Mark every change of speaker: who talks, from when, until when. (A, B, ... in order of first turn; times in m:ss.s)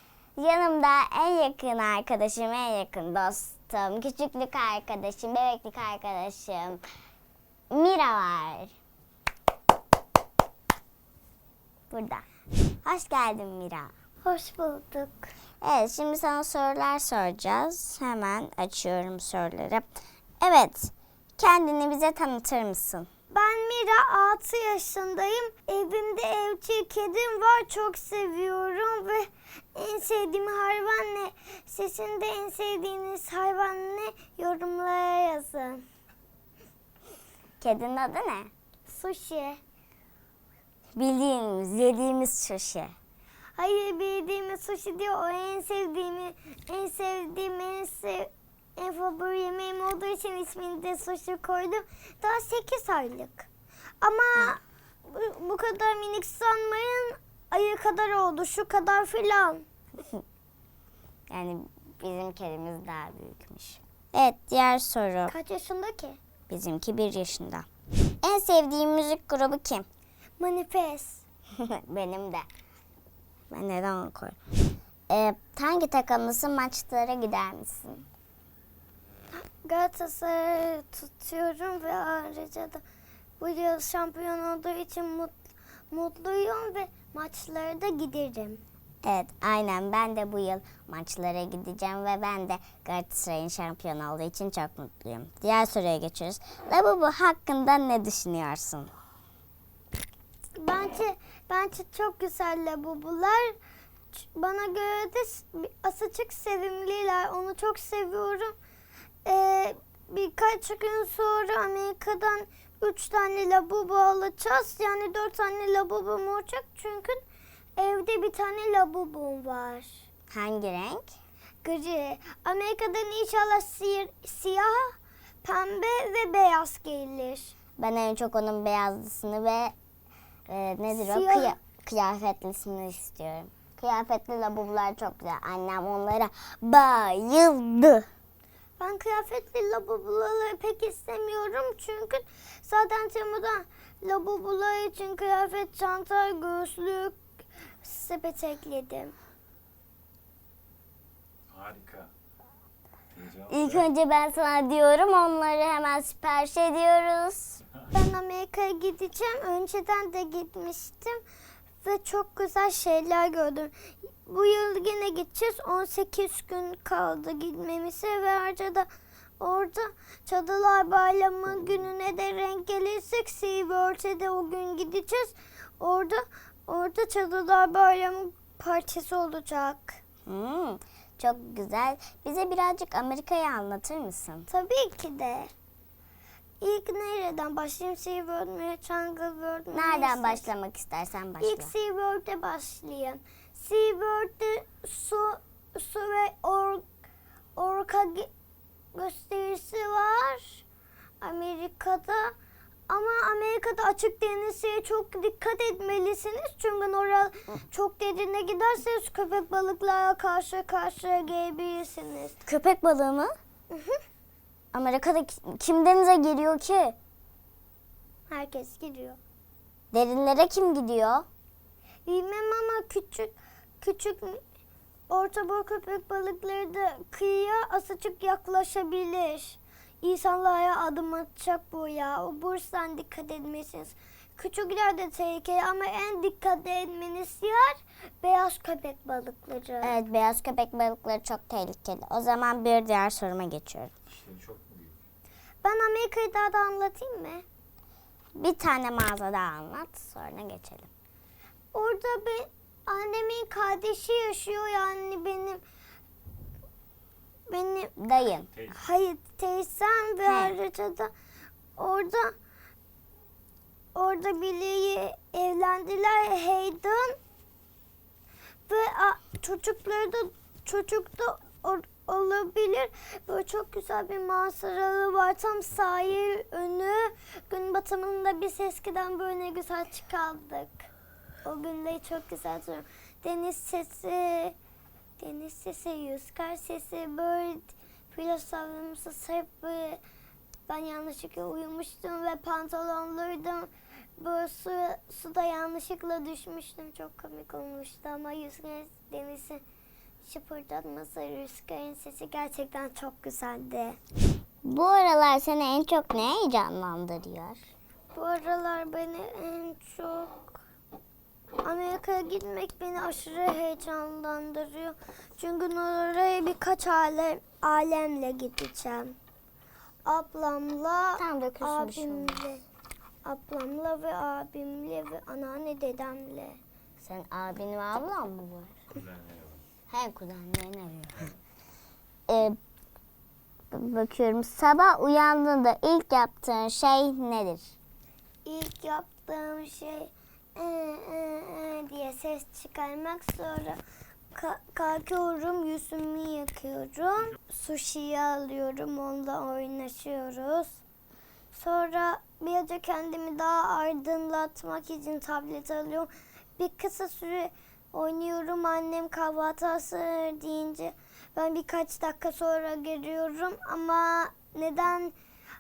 0:00.4-0:06.8 A
0:07.7-0:08.7 A
0:11.9-0:12.3 A
0:12.8-0:13.9 A
0:14.2-0:15.3 B
0:15.6-0:19.9 A
0:20.4-0:23.1 A
0:23.3-0:35.8 B
0:37.6-0:38.5 A
0:38.9-0:39.6 B
0:41.0-0:42.9 A
0:43.6-0:53.5 B
0:54.0-0:59.6 B
1:01.3-1:05.3 A
1:05.3-1:06.2 B
1:06.5-1:07.7 A
1:08.2-1:09.9 A
1:10.4-1:11.2 B
1:11.6-1:12.5 A
1:13.5-1:14.4 A
1:15.1-1:18.0 A
1:19.3-1:22.8 B
1:23.4-1:25.4 B
1:25.9-1:28.6 B
1:29.0-1:38.9 A
1:40.6-1:43.6 B
1:44.1-1:48.6 B
1:49.2-1:57.2 B
1:57.8-2:00.0 B
2:00.3-2:01.1 A
2:01.6-2:07.6 B
2:07.8-2:09.7 A
2:10.5-2:18.1 A
2:10.9-2:11.6 B
2:18.8-2:27.2 B
2:27.8-2:29.2 B
2:31.5-2:32.1 C
2:33.1-2:33.9 C
2:33.5-2:37.6 A
2:37.9-2:41.2 B
2:41.8-2:48.9 B
2:49.4-3:00.0 B
3:00.3-3:04.5 A
3:04.5-3:05.5 B
3:06.6-3:10.5 B
3:09.7-3:11.7 A
3:11.4-3:16.8 B
3:17.6-3:18.3 B
3:18.9-3:20.6 B
3:21.2-3:22.4 B
3:22.9-3:32.4 B
3:32.5-3:33.4 A
3:33.7-3:34.0 B
3:34.7-3:37.0 A
3:38.3-3:39.2 B
3:39.9-3:41.3 A
3:42.1-3:44.4 B
3:45.1-4:00.0 B
3:59.8-4:03.9 A
4:04.1-4:05.0 C
4:05.6-4:07.4 B
4:08.4-4:10.9 A
4:11.7-4:15.6 B
4:17.5-4:17.9 B
4:18.0-4:18.5 A
4:18.5-4:18.8 C
4:18.7-4:21.1 B
4:20.2-4:20.6 A
4:21.8-4:22.3 B
4:24.0-4:27.2 B
4:28.7-4:40.9 B
4:41.4-4:44.6 B
4:45.2-4:50.0 B
4:50.7-4:59.6 B
5:00.2-5:04.0 B
5:04.6-5:07.6 A
5:08.1-5:10.6 B
5:11.6-5:19.2 B
5:20.1-5:22.6 B
5:21.2-5:22.4 A
5:23.2-5:26.6 B
5:27.0-5:28.8 A
5:28.9-5:29.6 C
5:29.9-5:31.3 A
5:32.3-5:32.6 A
5:33.7-5:37.8 A
5:38.4-5:43.8 B
5:44.3-5:50.8 B
5:51.5-6:05.2 B